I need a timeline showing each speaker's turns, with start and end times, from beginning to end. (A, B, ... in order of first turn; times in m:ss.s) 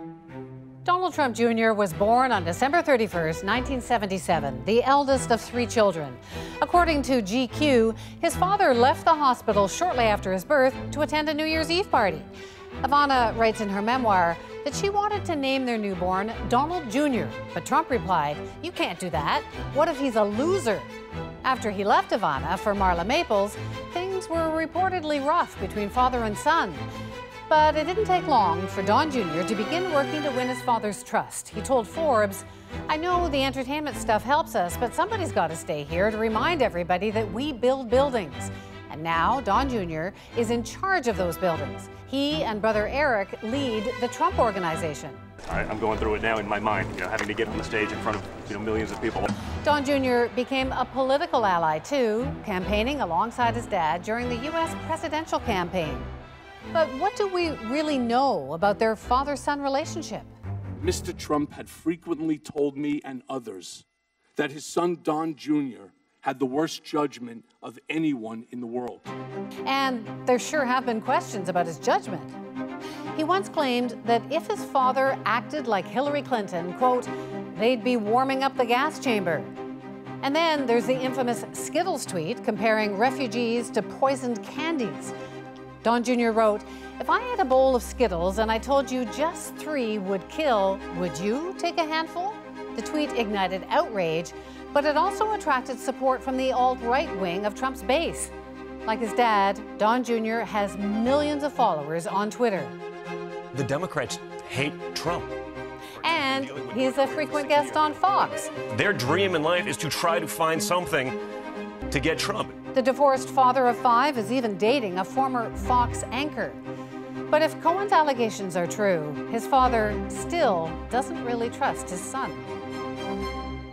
0:00.8-0:12.3 A
0:12.8-0:20.9 A
0:21.4-0:26.8 A
0:27.5-0:45.2 A
0:45.4-0:49.3 B
0:49.6-0:56.1 A
0:56.7-1:00.3 A
1:00.8-1:03.8 C
1:04.4-1:09.1 C
1:09.6-1:12.4 A
1:13.1-1:19.5 A
1:20.2-1:25.1 A
1:25.8-1:38.3 A
1:38.8-1:42.8 A
1:43.5-1:45.3 D
1:46.0-1:48.5 A
1:46.3-1:51.2 D
1:51.9-1:52.6 D
1:52.7-1:56.6 A
1:57.3-2:02.5 A